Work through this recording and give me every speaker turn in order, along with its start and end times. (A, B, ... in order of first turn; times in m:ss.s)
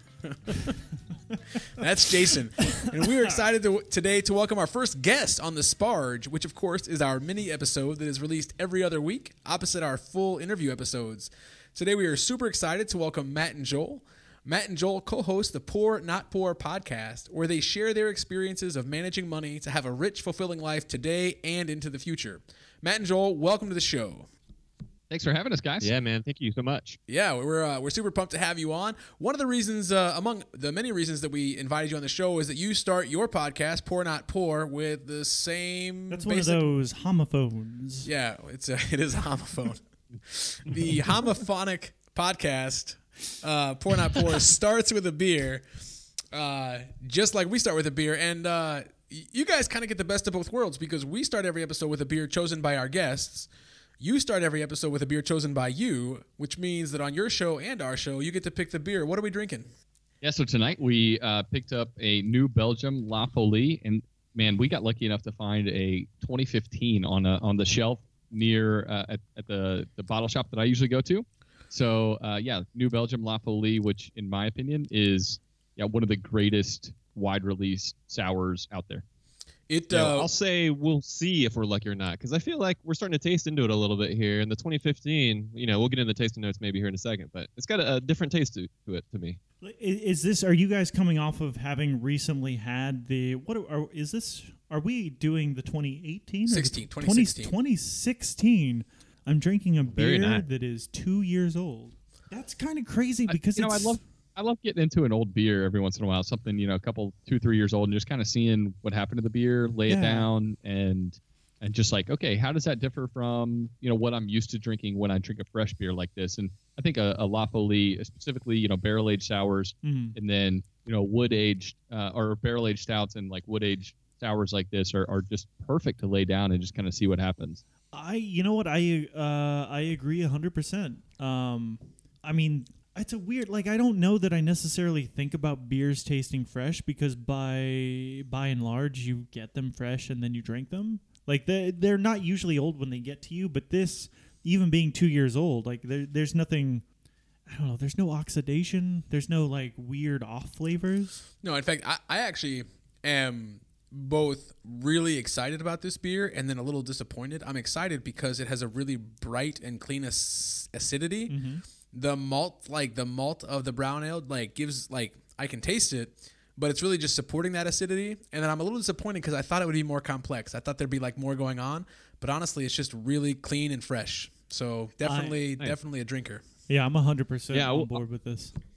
0:00.2-0:00.7 A
0:01.8-0:24.3 A
0:25.1-0:25.9 B
0:25.8-0:27.0 C
0:27.1-0:36.7 A
0:36.1-0:38.1 D
0:38.0-0:45.8 A
0:46.3-0:59.7 A
1:00.2-1:19.0 B
1:19.7-1:20.3 A
1:19.9-1:29.4 C
1:29.6-1:44.0 D
1:36.4-1:37.5 A
1:39.8-1:40.4 C
1:43.3-2:07.6 B
1:49.9-1:50.3 D
1:59.8-2:00.2 D
2:07.9-2:26.8 D
2:27.4-2:31.2 D
2:31.4-2:41.4 A
2:41.3-2:41.6 D
2:41.9-2:56.4 A
2:55.0-2:55.4 D
2:56.7-2:58.6 D
2:57.5-2:58.0 C